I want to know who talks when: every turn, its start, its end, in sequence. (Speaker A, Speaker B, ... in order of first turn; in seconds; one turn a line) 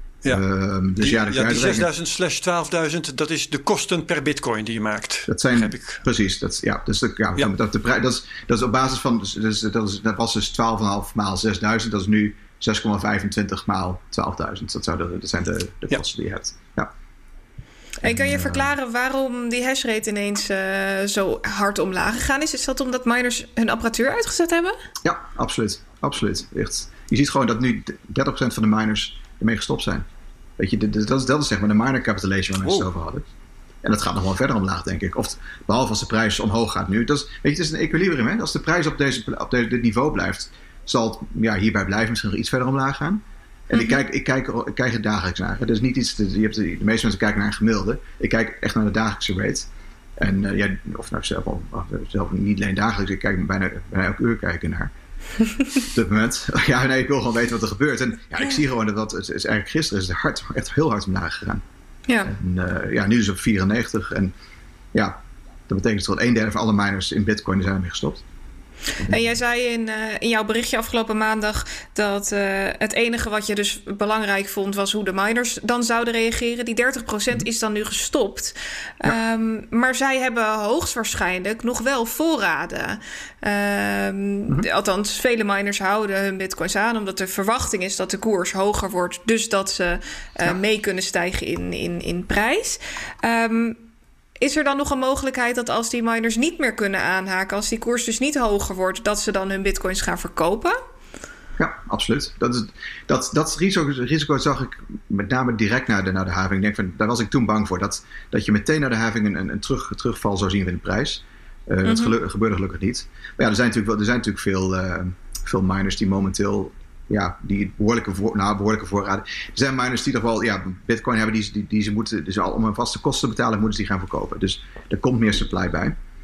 Speaker A: 0.3-1.9
Speaker B: 1.0-6.0
Speaker A: 5.3-16.9
Speaker C: 18.0-24.8
Speaker A: 18.0-18.7
Speaker A: 25.0-30.0
Speaker A: 30.6-33.2
Speaker A: 33.8-54.9
Speaker A: 55.7-61.6
Speaker A: 62.2-64.3
Speaker A: 64.9-68.2
Speaker C: 69.1-93.8
Speaker C: 94.4-100.8
Speaker A: 101.6-126.0
Speaker C: 111.8-112.1